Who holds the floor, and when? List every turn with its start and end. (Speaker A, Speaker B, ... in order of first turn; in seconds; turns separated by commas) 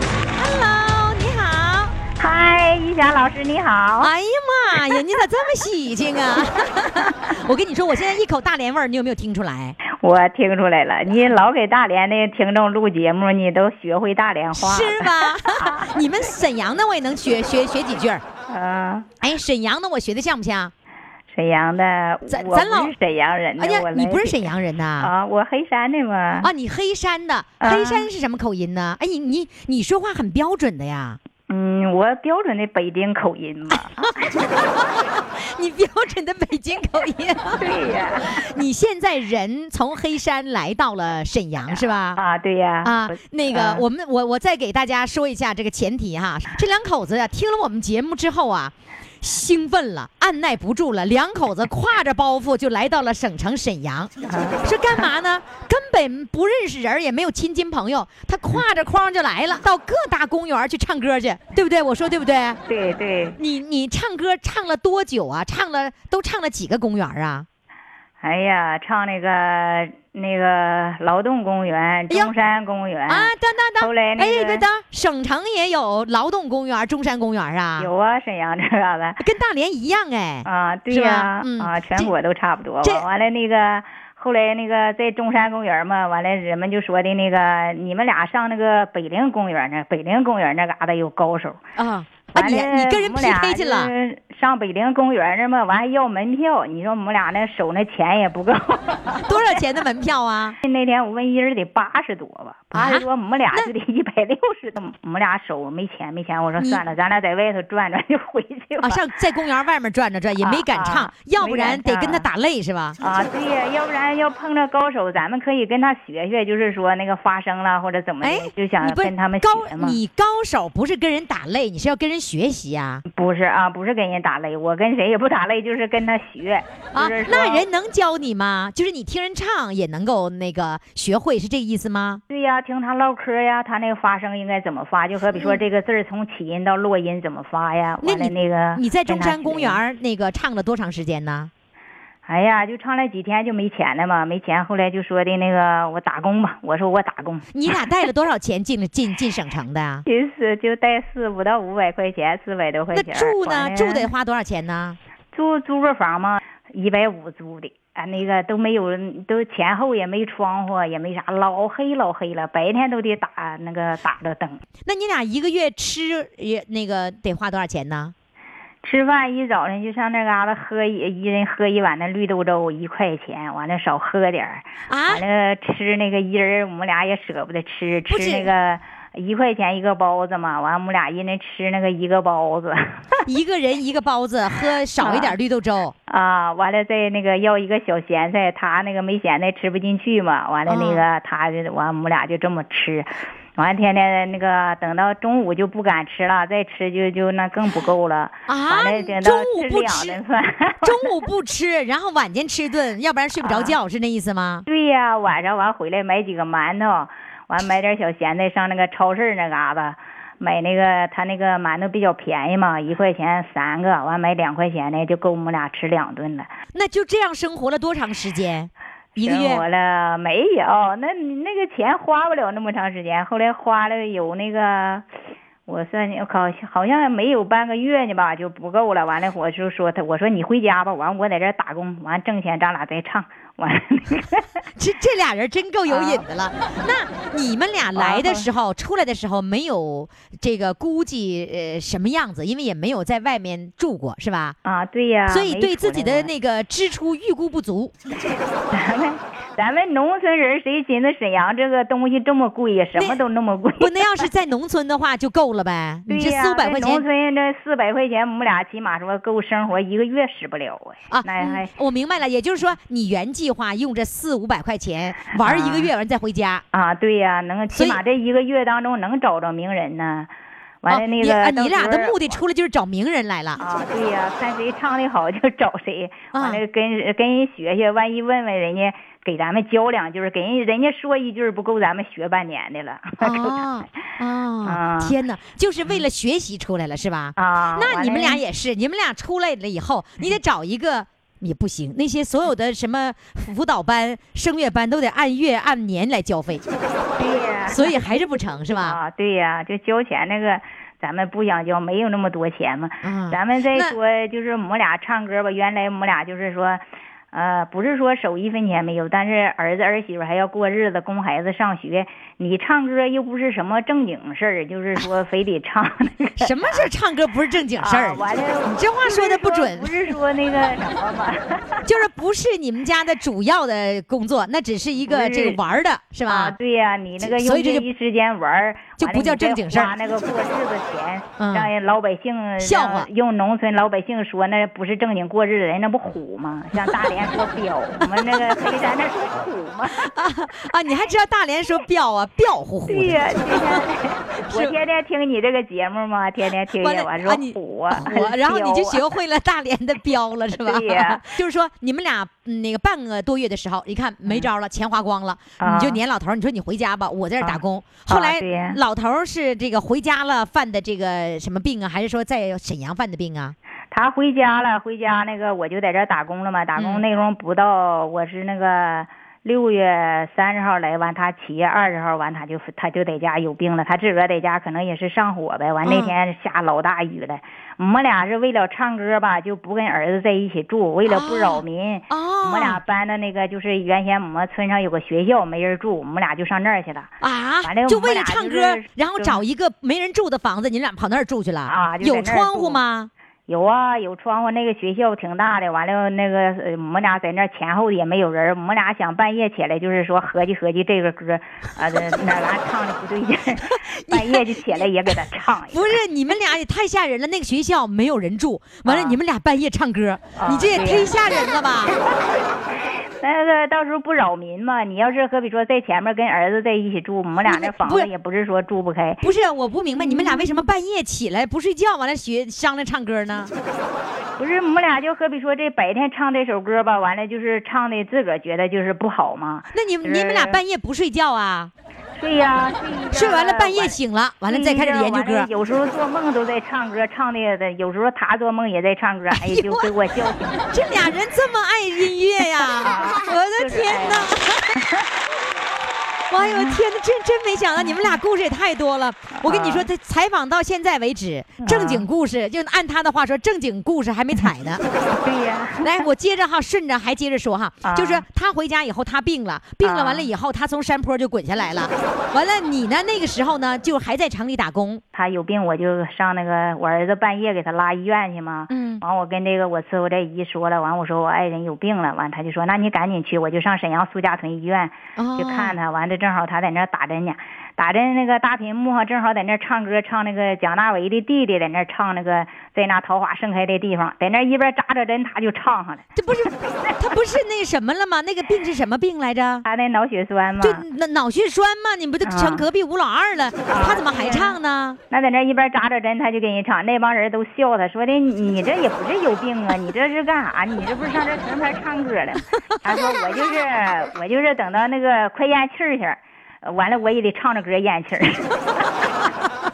Speaker A: 0.4-2.0, Speaker B: 2.2-4.1, Speaker A: 4.0-9.8, Speaker B: 10.0-15.9, Speaker A: 14.5-18.2, Speaker B: 18.5-19.1, Speaker A: 19.2-20.7, Speaker B: 21.3-24.4, Speaker A: 22.3-22.9, Speaker A: 23.6-25.1, Speaker B: 25.0-26.5, Speaker A: 26.4-31.2, Speaker B: 27.6-28.1, Speaker B: 31.5-34.1, Speaker A: 33.7-37.6, Speaker B: 37.6-38.5, Speaker A: 38.3-42.2, Speaker B: 42.2-43.8, Speaker A: 42.8-54.1, Speaker B: 54.3-54.6, Speaker A: 54.6-62.6, Speaker B: 62.7-63.4, Speaker A: 63.4-67.5, Speaker B: 68.2-74.7, Speaker A: 73.1-77.9, Speaker B: 77.8-79.2, Speaker A: 79.2-82.1, Speaker B: 80.5-91.6, Speaker A: 91.8-93.9, Speaker B: 92.3-99.4, Speaker A: 99.3-100.6, Speaker B: 100.7-109.0, Speaker A: 102.7-103.7, Speaker A: 106.6-106.8, Speaker A: 108.8-113.0, Speaker B: 110.4-112.2, Speaker B: 113.0-120.0, Speaker A: 118.2-123.0, Speaker B: 123.1-127.7, Speaker A: 126.9-132.2, Speaker B: 132.3-139.8, Speaker A: 135.3-135.6, Speaker A: 138.0-141.5, Speaker B: 142.3-147.5, Speaker A: 147.5-150.1, Speaker B: 150.1-154.1, Speaker A: 152.9-155.0, Speaker B: 155.3-164.6, Speaker A: 164.8-168.1, Speaker B: 168.8-183.0, Speaker A: 174.9-175.2, Speaker A: 178.1-178.5, Speaker A: 183.3-185.9, Speaker B: 185.0-185.3, Speaker B: 186.1-201.1, Speaker A: 190.7-191.1, Speaker A: 198.5-200.2, Speaker A: 200.8-204.7, Speaker B: 203.4-203.8, Speaker B: 204.7-216.5, Speaker A: 216.7-219.7, Speaker B: 219.2-225.1, Speaker B: 225.7-234.5, Speaker A: 234.8-244.6, Speaker B: 235.9-236.2, Speaker B: 237.9-238.5, Speaker B: 244.7-246.3, Speaker A: 245.3-247.9, Speaker B: 248.7-254.0, Speaker A: 252.9-253.2, Speaker A: 253.8-257.1, Speaker B: 256.1-261.7, Speaker A: 261.1-266.6, Speaker B: 265.4-265.9, Speaker B: 266.7-270.3, Speaker A: 267.7-268.0, Speaker B: 270.8-272.4, Speaker A: 270.9-273.6, Speaker B: 273.6-283.6, Speaker A: 276.3-276.6, Speaker A: 283.2-296.6, Speaker B: 284.7-285.1, Speaker B: 287.4-288.4, Speaker B: 297.2-298.0, Speaker A: 297.7-299.0, Speaker B: 298.7-316.9, Speaker A: 303.0-304.0, Speaker A: 316.4-320.1, Speaker B: 317.8-321.9, Speaker A: 321.9-326.6, Speaker B: 325.1-325.6, Speaker B: 326.3-340.1, Speaker A: 327.2-327.9, Speaker A: 329.0-329.9, Speaker A: 331.4-331.7, Speaker A: 332.6-333.1, Speaker A: 338.0-338.6, Speaker A: 339.9-343.9, Speaker B: 342.9-349.1, Speaker A: 344.5-344.8, Speaker A: 346.7-363.6, Speaker B: 350.6-351.2, Speaker B: 355.6-356.0, Speaker B: 357.4-358.8, Speaker B: 363.9-387.1, Speaker A: 366.8-367.0, Speaker A: 375.9-376.1, Speaker A: 381.1-382.8, Speaker A: 387.2-393.1, Speaker B: 387.6-389.4, Speaker B: 391.7-392.8, Speaker B: 393.5-406.0, Speaker A: 403.7-405.2, Speaker A: 405.7-412.0, Speaker B: 408.9-409.2, Speaker B: 410.4-411.1, Speaker B: 413.2-419.2, Speaker A: 417.5-418.1, Speaker A: 419.2-423.5, Speaker B: 420.0-420.5, Speaker B: 424.4-430.6, Speaker A: 429.7-431.7, Speaker B: 432.2-440.6, Speaker A: 433.1-435.5, Speaker A: 439.3-439.9, Speaker A: 440.7-444.8, Speaker B: 442.6-445.1, Speaker A: 446.3-454.8, Speaker B: 446.4-446.8, Speaker B: 449.4-449.9, Speaker B: 451.6-452.1, Speaker B: 455.2-456.0, Speaker A: 455.8-465.0, Speaker B: 457.8-458.2, Speaker B: 459.8-460.3, Speaker B: 465.1-486.9, Speaker A: 468.7-469.0, Speaker A: 475.2-475.8, Speaker A: 486.1-489.6, Speaker B: 489.6-490.8, Speaker A: 490.6-495.0, Speaker B: 492.2-492.6, Speaker B: 493.7-494.6, Speaker B: 495.1-508.9, Speaker A: 502.9-503.2